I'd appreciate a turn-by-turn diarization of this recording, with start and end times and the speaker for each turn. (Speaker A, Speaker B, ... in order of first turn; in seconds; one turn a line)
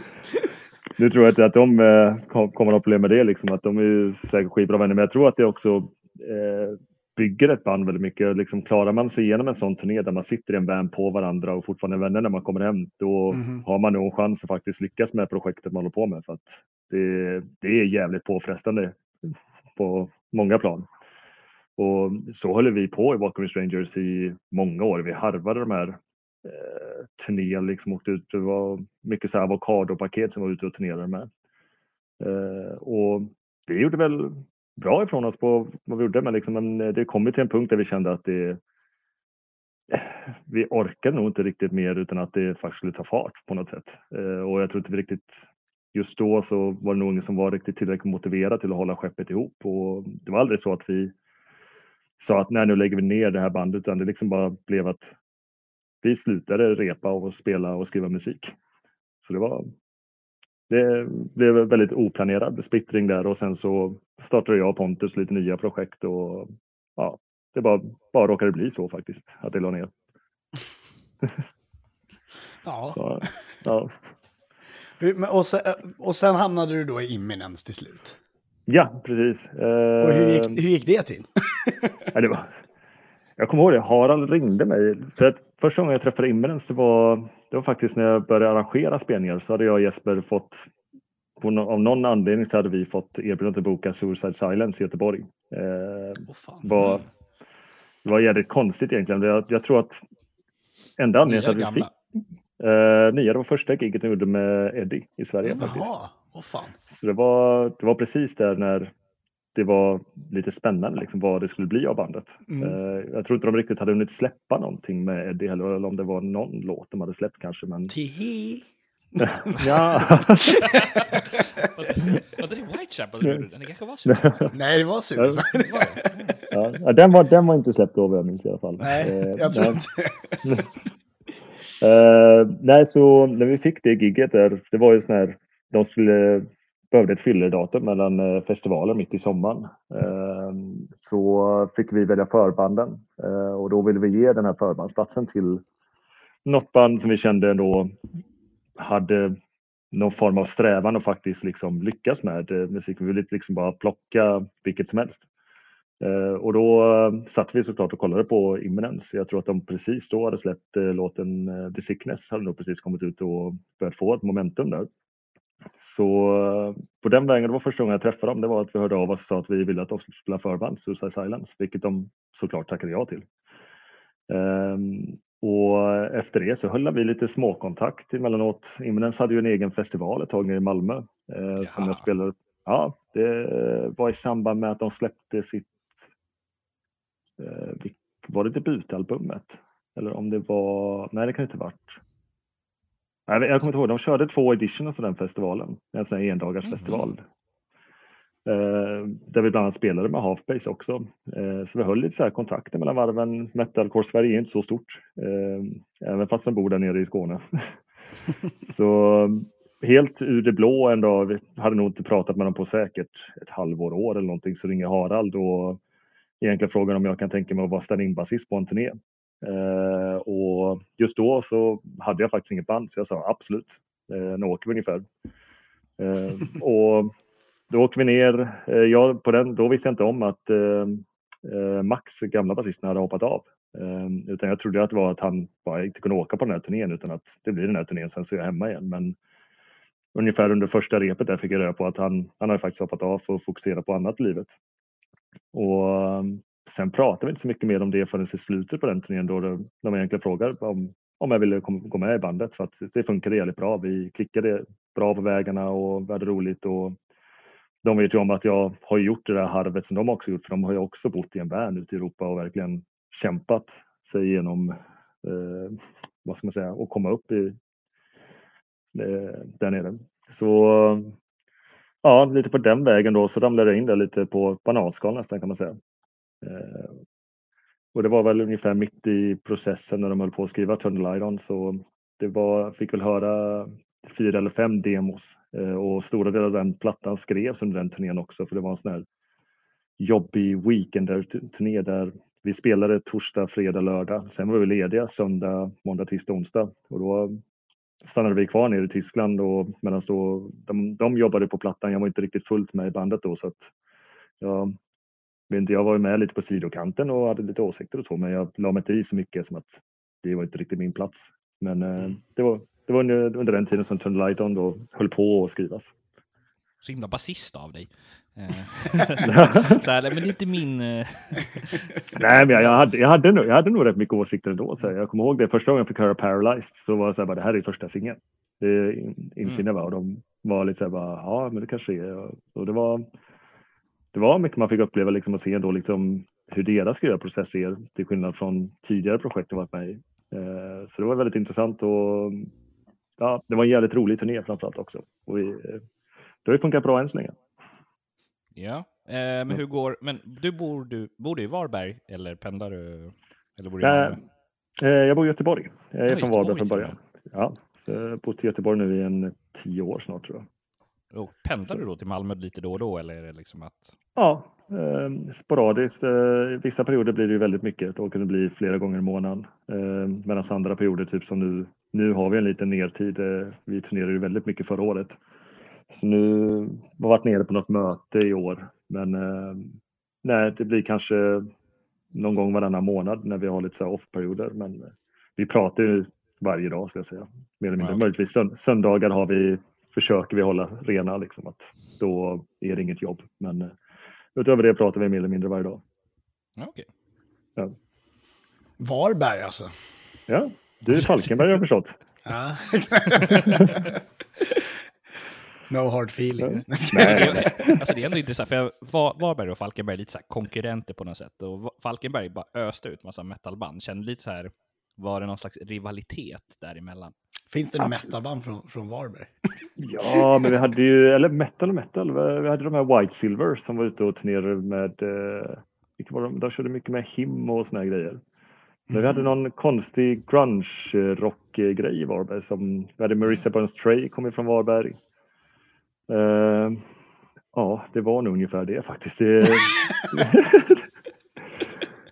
Speaker A: 1.0-20.9
Speaker B: 13.3-13.6
Speaker A: 21.8-31.3
Speaker A: 32.2-38.6
Speaker A: 39.9-45.3
Speaker A: 45.9-51.1
Speaker A: 52.2-55.1
Speaker A: 56.0-58.5
Speaker A: 59.2-59.7
Speaker A: 60.7-69.9
Speaker B: 72.6-73.0
Speaker A: 73.0-73.9
Speaker B: 75.0-78.2
Speaker A: 78.7-80.6
Speaker B: 80.0-82.1
Speaker A: 82.1-82.5
Speaker A: 83.4-90.6
Speaker A: 91.4-97.1
Speaker B: 96.3-96.7
Speaker C: 96.8-97.0
Speaker A: 98.0-100.0
Speaker A: 101.0-101.9
Speaker C: 101.2-101.9
Speaker A: 102.6-105.9
Speaker B: 105.6-106.8
Speaker A: 106.9-108.9
Speaker A: 109.5-117.9
Speaker B: 112.5-112.8
Speaker B: 117.9-121.4
Speaker A: 119.2-120.6
Speaker C: 121.0-124.5
Speaker A: 124.1-124.5
Speaker B: 124.5-126.4
Speaker A: 125.2-125.4
Speaker C: 125.6-126.1
Speaker A: 126.5-129.8
Speaker B: 128.8-130.4
Speaker A: 131.8-145.6
Speaker A: 146.5-147.9
Speaker A: 148.8-149.4
Speaker A: 149.9-155.3
Speaker A: 156.0-164.9
Speaker A: 165.8-173.3
Speaker A: 174.3-185.7
Speaker C: 181.6-182.1
Speaker A: 187.4-192.0
Speaker A: 193.3-197.2
Speaker C: 196.6-197.1
Speaker A: 198.5-207.8
Speaker A: 208.7-215.8
Speaker A: 216.4-225.1
Speaker A: 226.0-227.1
Speaker A: 227.7-239.2
Speaker A: 240.2-244.5
Speaker A: 245.5-257.0
Speaker A: 257.8-267.6
Speaker A: 268.9-271.1
Speaker A: 272.0-275.8
Speaker A: 276.4-277.0
Speaker A: 277.9-289.1
Speaker A: 290.0-297.4
Speaker A: 298.0-303.7
Speaker A: 304.4-304.8
Speaker A: 305.5-315.9
Speaker C: 316.8-321.9
Speaker A: 319.2-319.8
Speaker A: 322.1-333.1
Speaker A: 334.1-342.5
Speaker A: 343.2-345.8
Speaker A: 346.4-347.4
Speaker C: 348.6-354.2
Speaker A: 353.8-354.2
Speaker A: 354.8-360.5
Speaker C: 356.1-356.9
Speaker C: 361.1-363.9
Speaker A: 364.2-375.2
Speaker A: 375.9-381.5
Speaker A: 382.1-393.8
Speaker C: 387.8-388.0
Speaker A: 394.4-395.8
Speaker C: 396.6-396.9
Speaker B: 398.8-399.7
Speaker A: 400.3-401.9
Speaker B: 402.2-403.9
Speaker A: 403.4-403.7
Speaker B: 405.7-407.8
Speaker A: 406.4-407.8
Speaker C: 407.0-417.1
Speaker B: 417.5-419.3
Speaker A: 419.8-428.2
Speaker B: 420.1-420.5
Speaker B: 428.9-429.3
Speaker A: 428.9-435.0
Speaker A: 436.1-436.8
Speaker A: 437.5-440.9